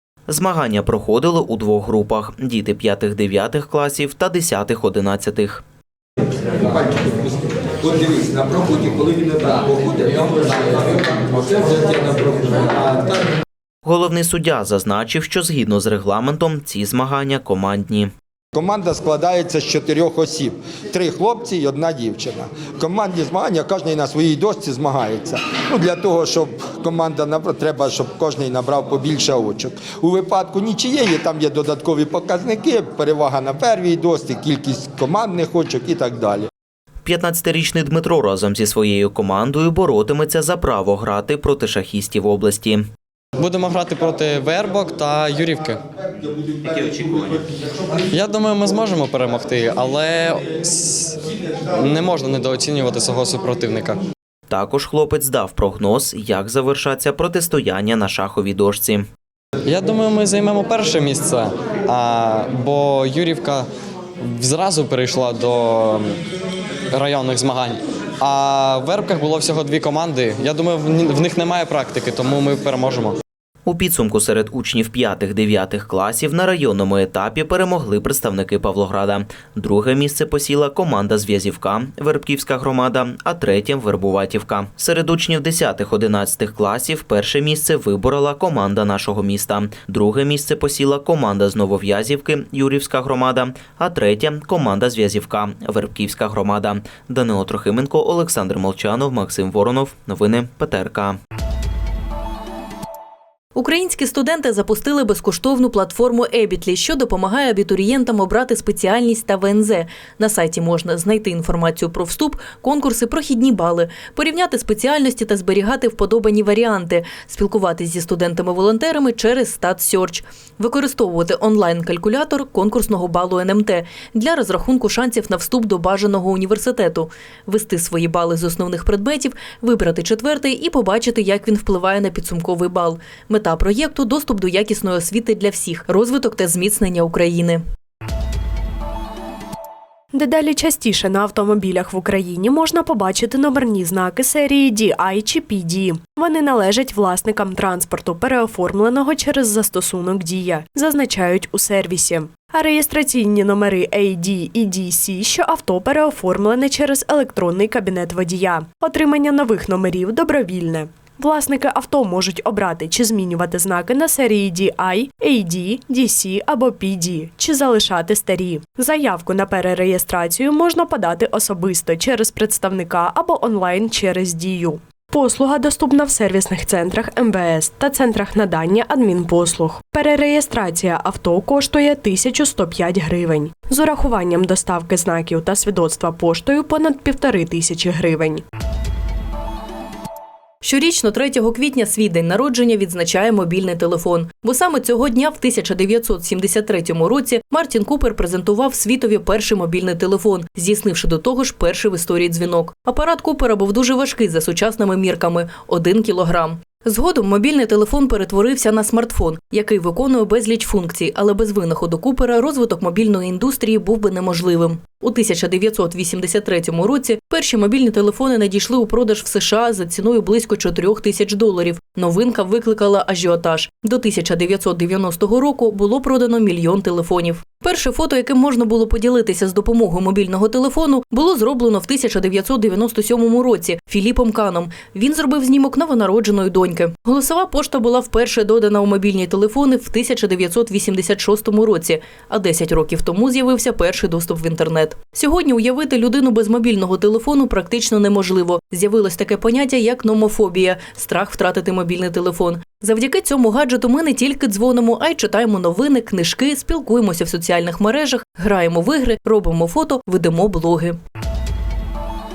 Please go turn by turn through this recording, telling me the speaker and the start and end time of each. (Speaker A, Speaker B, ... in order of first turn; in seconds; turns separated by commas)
Speaker A: 0.3-5.6, Speaker B: 6.6-13.2, Speaker A: 13.8-18.1, Speaker B: 18.5-36.5, Speaker A: 37.0-42.9, Speaker C: 43.4-45.8, Speaker A: 46.6-47.5, Speaker C: 48.1-54.0, Speaker A: 54.5-59.0, Speaker C: 59.6-63.7, Speaker C: 64.2-66.2, Speaker C: 66.9-73.2, Speaker A: 73.7-101.2, Speaker D: 103.5-137.6, Speaker E: 140.1-188.4, Speaker D: 190.6-261.0